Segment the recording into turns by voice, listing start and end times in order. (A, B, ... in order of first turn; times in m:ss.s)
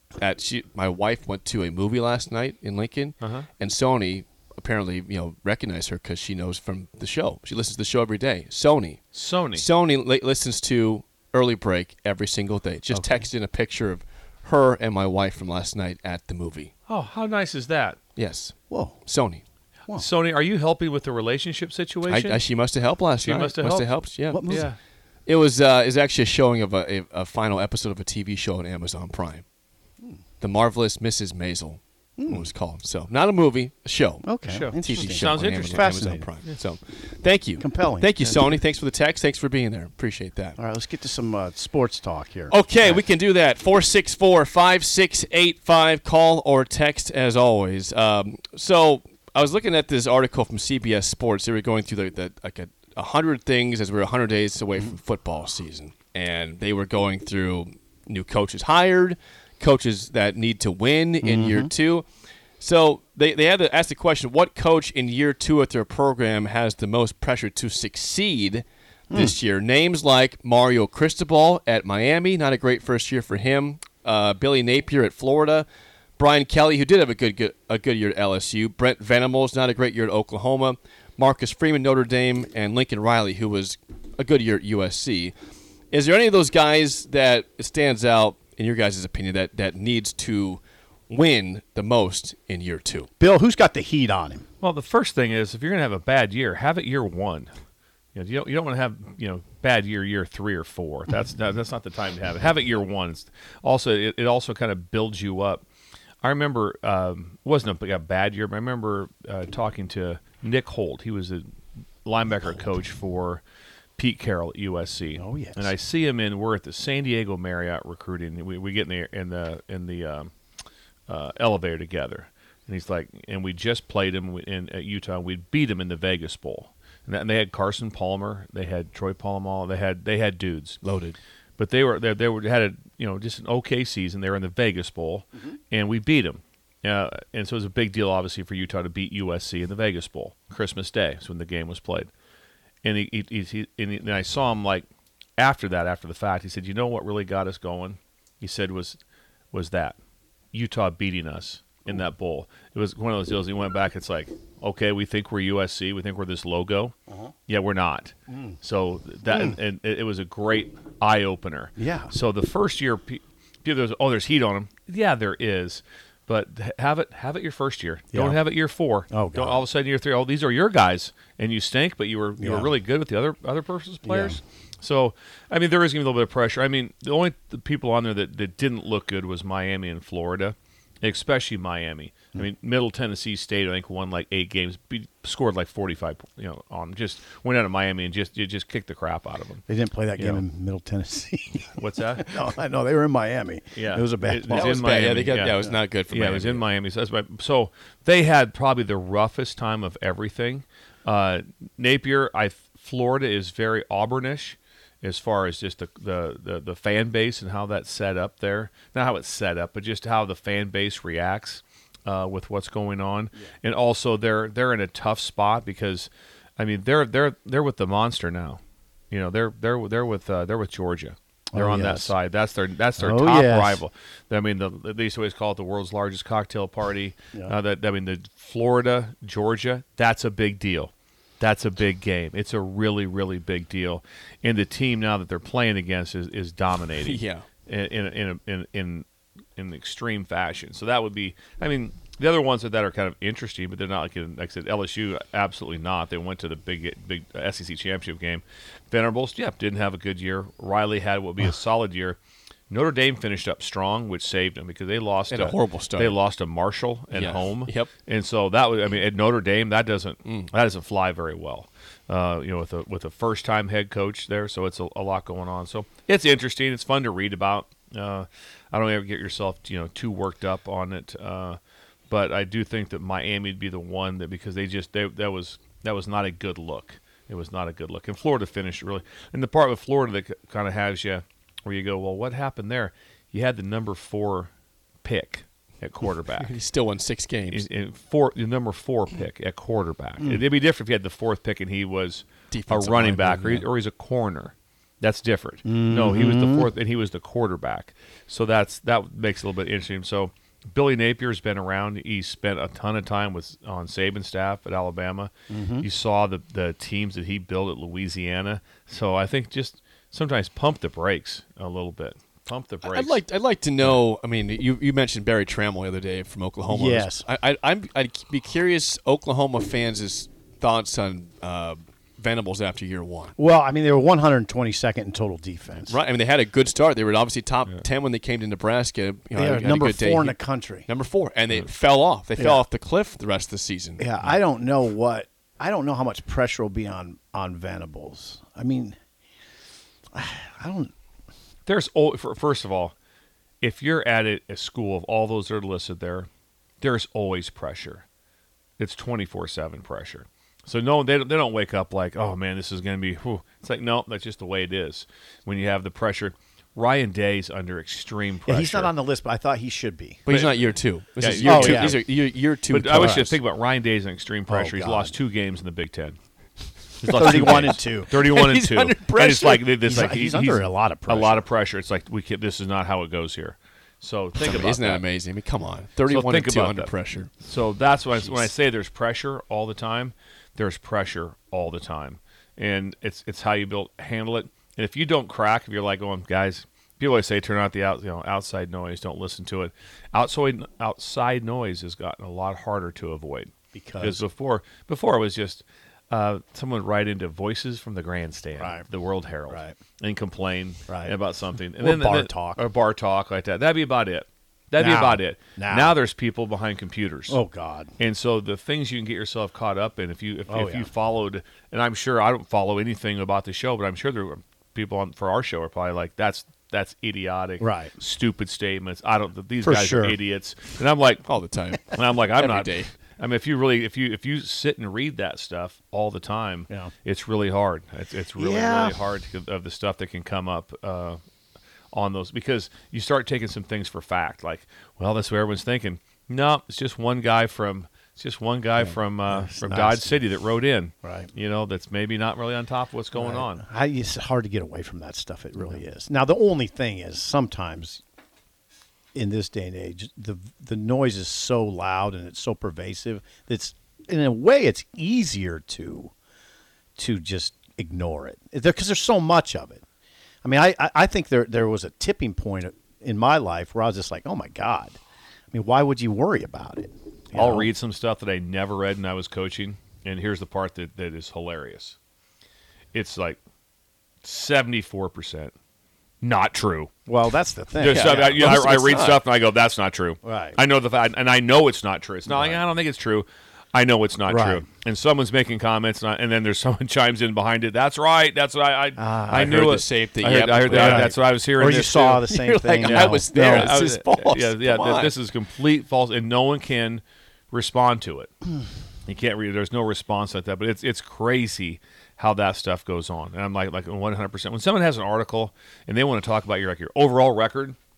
0:00.2-0:09.0 A
0:03.2-0:03.5 B
0:09.1-0:09.7 B
0:09.5-0:16.7 A
0:12.9-0:13.3 C
0:16.9-0:18.0 B
0:18.2-0:19.4 A
0:18.7-0:19.0 C
0:19.9-0:22.4 B
0:22.1-0:24.7 A
0:23.2-0:23.9 B
0:24.3-0:24.7 C
0:24.5-0:24.8 B
0:25.3-0:29.4 A
0:30.4-0:40.6 A
0:32.2-0:32.5 C
0:34.2-0:36.3 C
0:34.4-0:36.0 B
0:37.6-0:38.1 C
0:40.6-0:43.0 C
0:42.5-1:02.1 A
1:01.2-1:01.7 C
1:02.6-1:15.7 A
1:09.1-1:09.4 C
1:16.2-1:25.3 A
1:25.9-1:33.1 A
1:33.2-1:34.4 C
1:34.6-1:37.5 B
1:38.2-1:45.6 B
1:46.2-1:51.5 B
1:52.0-1:53.4 B
1:54.0-2:00.3 B
1:55.2-1:55.7 C
2:01.1-2:10.8 B
2:10.8-2:11.2 A
2:11.6-2:22.1 B
2:22.8-2:24.9 B
2:25.4-2:29.0 B
2:29.5-2:30.0 B
2:30.5-2:36.9 B
2:37.5-3:09.6 B
2:38.3-2:38.6 C
2:39.3-2:39.6 C
2:41.8-2:42.1 C
2:48.1-2:48.4 C
2:49.1-2:49.6 C
2:52.4-2:52.8 C
2:54.0-2:54.4 C
3:09.7-3:14.9 C
3:10.2-3:10.4 B
3:11.8-3:12.4 B
3:13.8-3:38.6 B
3:14.5-3:16.6 A
3:39.1-4:12.2 B
3:41.5-3:42.1 C
3:43.0-3:43.8 C
3:57.0-3:57.5 A
4:12.7-4:31.6 B
4:15.3-4:16.2 A
4:17.1-4:17.9 A
4:32.1-4:44.5 B
4:45.0-4:46.5 B
4:46.4-4:47.6 A
4:47.5-5:13.2 B
4:52.5-4:53.7 A
4:55.7-4:56.7 C
5:05.5-5:05.9 C
5:12.8-5:23.4 A
5:16.7-5:17.3 C
5:23.4-5:26.0 C
5:25.9-5:34.0 A
5:29.3-5:30.9 C
5:32.4-5:32.6 C
5:34.0-5:39.0 C
5:40.1-5:40.9 C
5:41.7-5:42.9 B
5:43.6-5:46.3 B
5:46.8-5:48.0 B
5:48.8-5:58.9 B
5:58.5-6:00.2 C
6:00.3-6:03.4 A
6:00.3-6:00.6 B
6:01.2-6:02.0 B
6:01.4-6:02.0 C
6:02.7-6:06.2 B
6:03.0-6:03.3 C
6:04.5-6:05.2 C
6:07.0-6:15.0 B
6:07.1-6:08.1 C
6:07.1-6:09.7 A
6:09.8-6:11.4 C
6:14.4-6:17.3 A
6:16.1-6:47.4 B
6:33.7-6:34.2 C
6:38.6-6:38.8 C
6:39.5-6:39.8 C
6:40.9-6:41.2 C
6:41.8-6:42.6 C
6:44.8-6:46.0 C
6:47.3-6:47.9 C
6:48.0-7:01.2 B
6:50.5-6:50.9 C
6:57.6-6:58.0 C
6:59.6-7:00.2 C
7:01.2-7:02.9 A
7:01.9-7:11.2 B
7:08.4-7:09.0 C
7:11.9-7:23.6 B
7:18.8-7:20.2 C
7:21.0-7:21.3 C
7:23.1-7:28.0 C
7:29.2-7:36.1 C
7:37.0-7:39.8 C
7:40.4-7:45.0 C
7:45.5-7:47.7 C
7:47.3-7:52.0 B
7:52.9-7:53.4 B
7:54.2-7:55.5 B
7:56.2-7:57.0 B
7:57.1-7:58.7 C
7:57.8-8:12.2 B
7:57.8-7:59.2 A
8:00.2-8:00.6 C
8:02.3-8:02.6 C
8:04.3-8:04.6 C
8:09.0-8:09.7 C
8:09.3-8:11.2 A
8:10.7-8:13.8 C
8:12.3-8:15.2 A
8:12.8-8:18.3 B
8:19.1-8:27.8 B